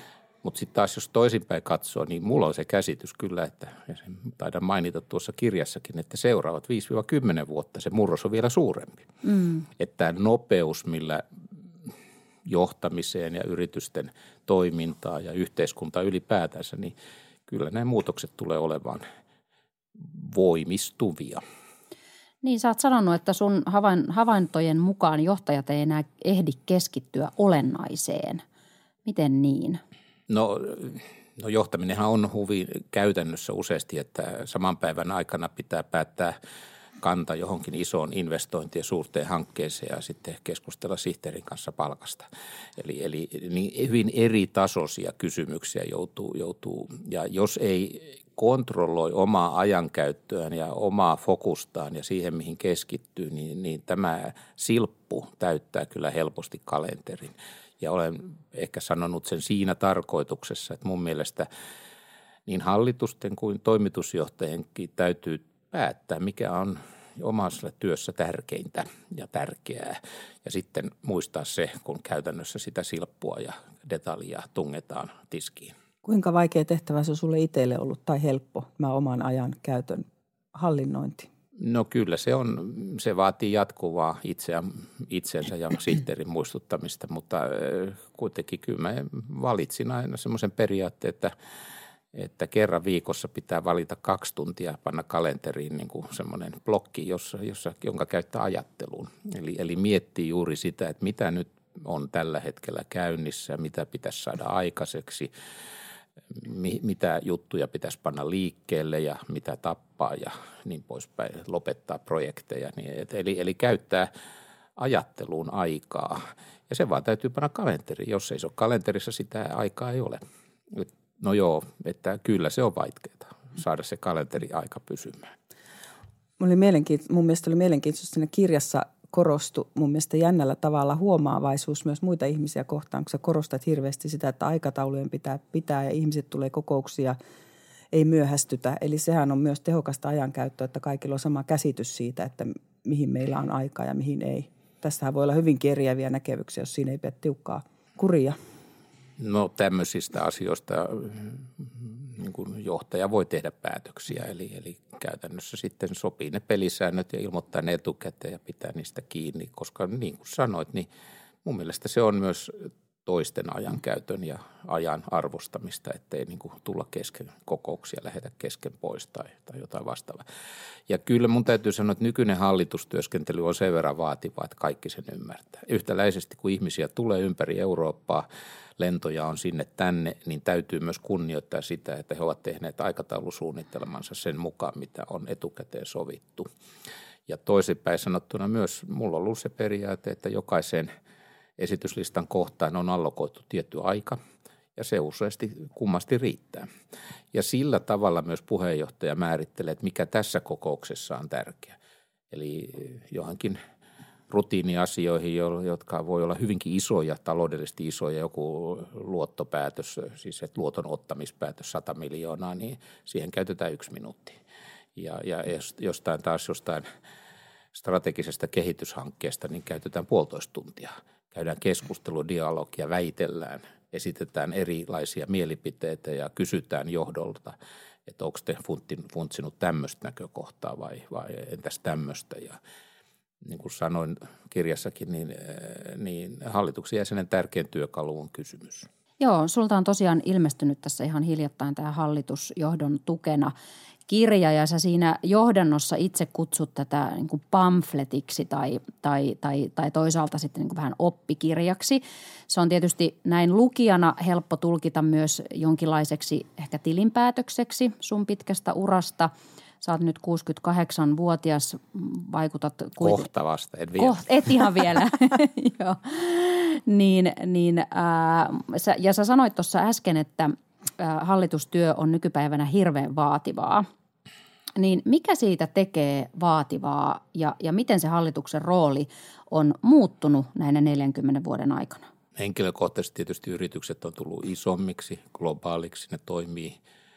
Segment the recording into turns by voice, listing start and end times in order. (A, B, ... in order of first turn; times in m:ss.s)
0:00.4-0:09.1 A
0:09.2-0:09.6 B
0:09.8-0:11.2 A
0:12.5-0:16.9 A
0:17.5-0:19.0 A
0:20.0-0:21.4 A
0:22.4-0:28.4 B
0:29.1-0:29.8 B
0:30.3-0:36.4 A
0:37.0-0:42.3 A
0:42.8-1:01.5 A
1:02.5-1:15.7 A
1:16.0-1:21.3 C
1:21.6-1:31.3 A
1:32.1-1:45.3 A
1:46.3-1:54.1 A
1:54.8-2:05.3 A
2:06.4-2:17.2 C
2:17.9-2:28.4 C
2:29.2-2:40.9 A
2:41.4-2:50.2 A
2:50.9-2:58.3 A
2:58.8-3:06.5 A
3:07.3-3:10.9 A
3:11.6-3:14.2 A
3:14.8-3:16.7 A
3:17.3-3:21.8 A
3:22.3-3:23.6 A
3:24.3-3:34.4 A
3:35.0-3:36.8 A
3:37.7-3:47.6 A
3:48.1-3:52.6 A
3:53.4-3:58.9 A
3:59.2-4:03.5 B
4:04.1-4:23.3 B
4:23.0-4:24.5 A
4:24.0-4:33.9 B
4:34.8-4:42.1 B
4:42.4-4:46.8 A